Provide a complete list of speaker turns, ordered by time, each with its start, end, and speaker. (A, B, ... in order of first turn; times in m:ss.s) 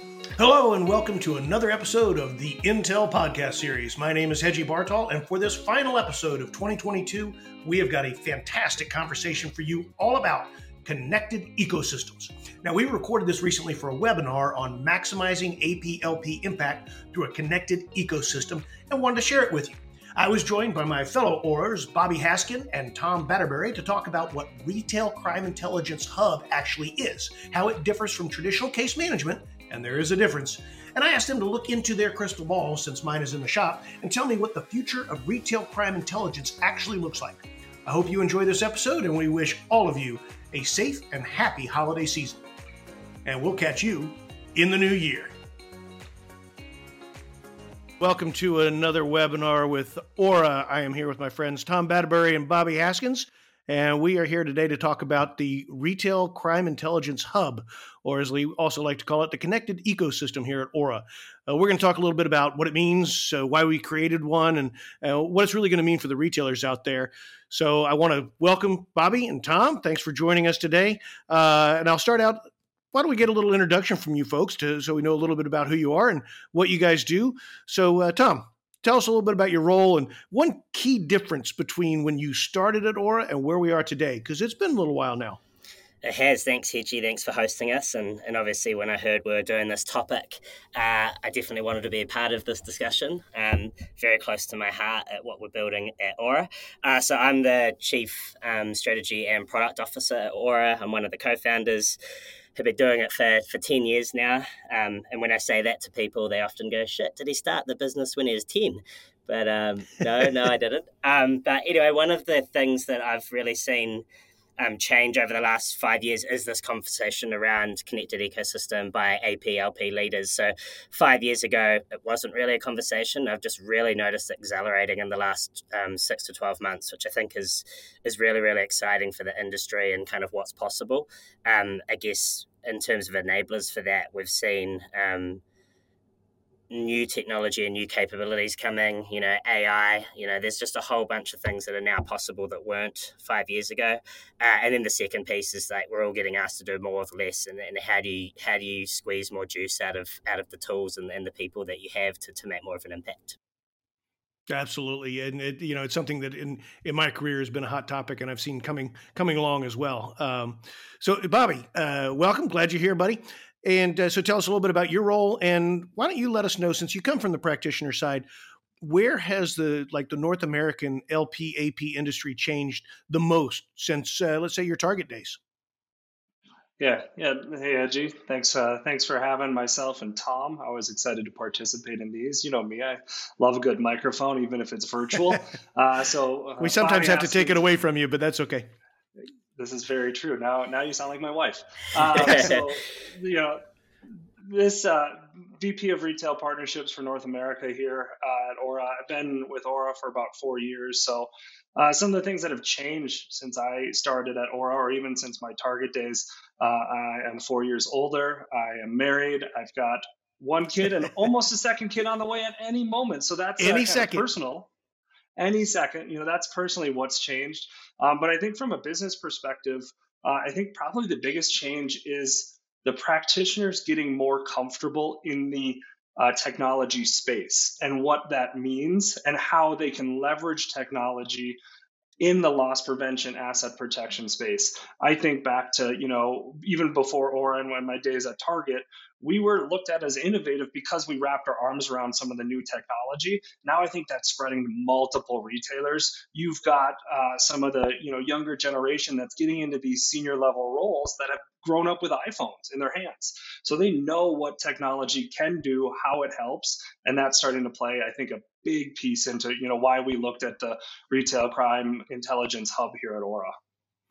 0:00.4-0:42.4 A
0:43.2-0:45.3 A
0:48.0-1:12.4 A
1:12.9-1:25.4 A
1:26.0-1:42.0 B
1:42.6-1:54.0 B
1:54.6-2:15.4 B
2:16.7-2:33.4 B
2:34.5-2:48.3 A
2:48.8-2:55.4 A
2:56.8-3:07.6 C
3:06.6-3:08.7 A
3:09.6-3:13.6 C
3:12.2-3:12.6 B
3:14.4-3:34.7 C
3:33.6-3:34.2 A
3:35.4-3:51.6 C
3:52.2-4:23.6 C